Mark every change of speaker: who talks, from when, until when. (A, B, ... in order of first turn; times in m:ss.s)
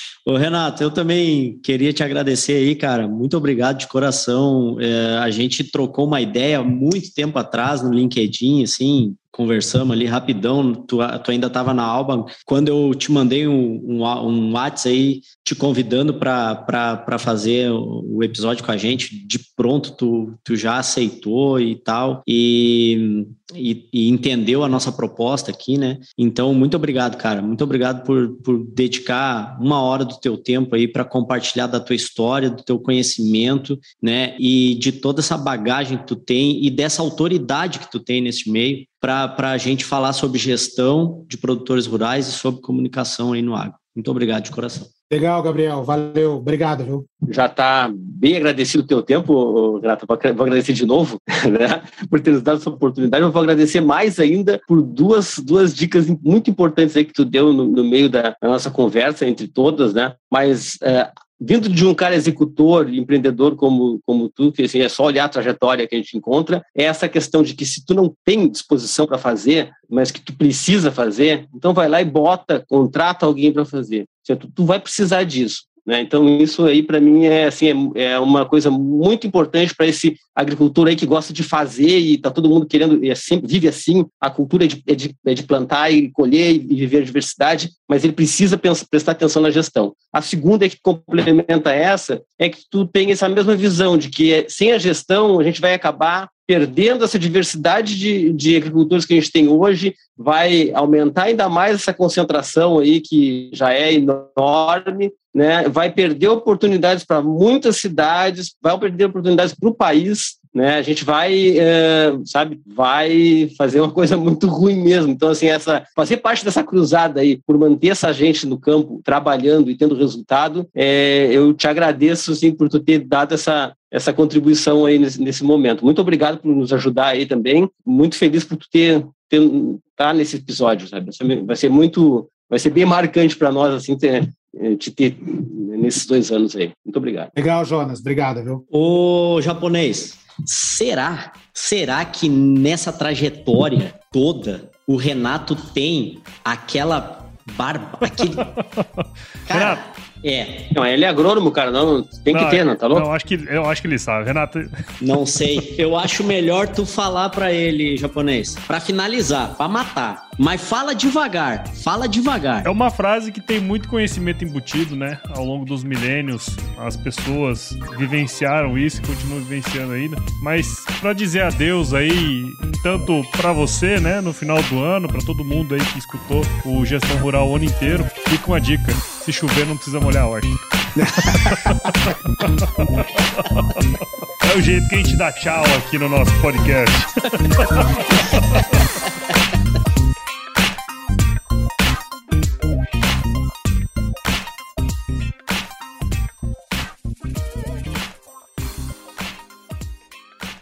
0:00.2-0:44.9 A
0:45.1-0:47.1 B
0:47.3-2:17.3 C
2:17.3-2:18.6 B
2:18.7-2:28.5 A
2:28.2-2:29.8 D
2:29.5-2:30.7 A
2:30.7-2:33.0 C
2:32.3-2:34.8 D
2:35.0-2:42.7 A
2:42.6-3:00.6 D
3:01.0-3:01.8 B
3:01.2-3:03.8 D
3:04.4-3:07.8 D